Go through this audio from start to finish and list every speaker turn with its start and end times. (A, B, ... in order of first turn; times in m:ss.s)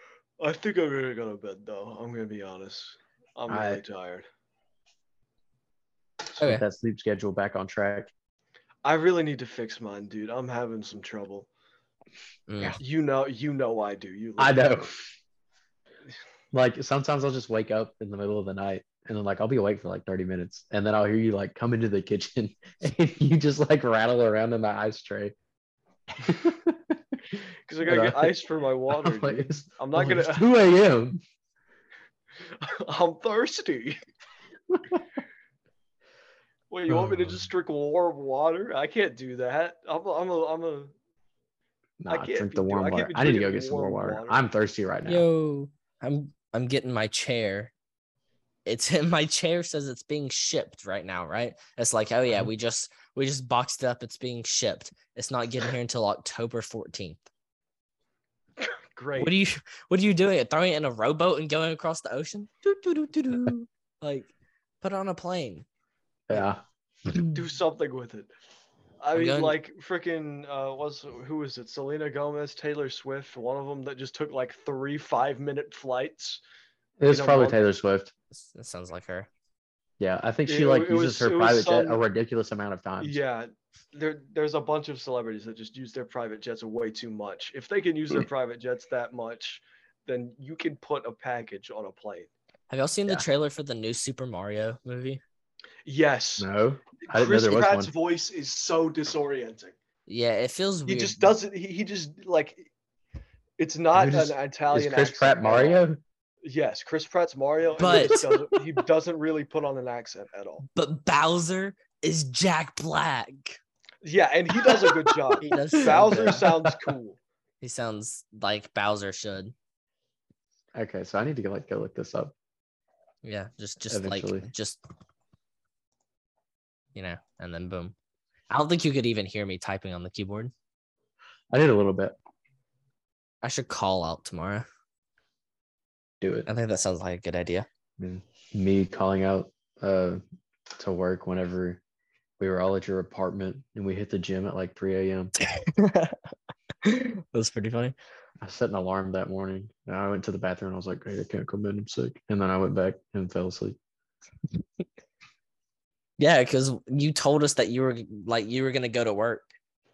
0:00.4-0:04.2 A
0:03.5-0:03.8 B
0:06.3-0:08.1 B
0:06.4-0:06.6 C
0:08.8-0:11.5 A
0:12.5-0:12.8 C
0:12.8-0:14.9 A
0:14.4-0:14.9 B
0:16.5-0:25.3 B
0:26.2-0:28.3 B
0:27.7-0:30.5 A
0:28.9-0:31.2 B
0:32.6-0:34.0 A
0:34.7-0:35.0 B
0:36.7-0:40.9 A
0:36.9-0:37.3 B
0:42.0-0:45.2 B
0:42.1-0:44.4 A
0:45.1-0:47.7 C
0:48.6-0:57.2 C
0:58.9-0:59.3 A
0:59.2-1:05.6 C
1:06.3-1:06.6 B
1:07.1-1:07.4 C
1:07.3-1:08.3 A
1:09.0-1:16.4 A
1:09.1-1:09.6 C
1:17.0-1:18.1 B
1:17.1-1:17.6 A
1:18.3-1:19.3 C
1:20.0-1:23.2 B
1:20.5-1:22.0 A
1:23.0-1:32.3 A
1:32.7-1:35.2 C
1:35.8-1:36.5 A
1:36.4-1:37.9 B
1:37.0-1:39.7 A
1:40.1-1:41.2 C
1:40.9-1:42.7 A
1:43.6-1:45.8 A
1:43.9-1:46.0 B
1:46.4-1:50.6 A
1:47.8-1:48.3 C
1:50.7-1:53.6 C
1:54.0-1:57.2 A
1:55.4-1:56.4 C
1:55.8-1:56.9 B
1:57.6-1:59.5 C
2:00.7-2:02.3 B
2:03.2-2:04.8 C
2:03.9-2:04.5 B
2:06.9-2:07.9 C
2:08.5-2:10.5 C
2:11.5-2:12.2 B
2:13.4-2:14.6 C
2:16.2-2:16.5 B
2:16.4-2:17.7 C
2:18.0-2:20.2 B
2:20.8-2:21.8 B
2:22.4-2:25.3 B
2:25.4-2:26.2 C
2:26.8-2:27.9 C
2:28.4-2:33.8 B
2:36.2-2:39.5 C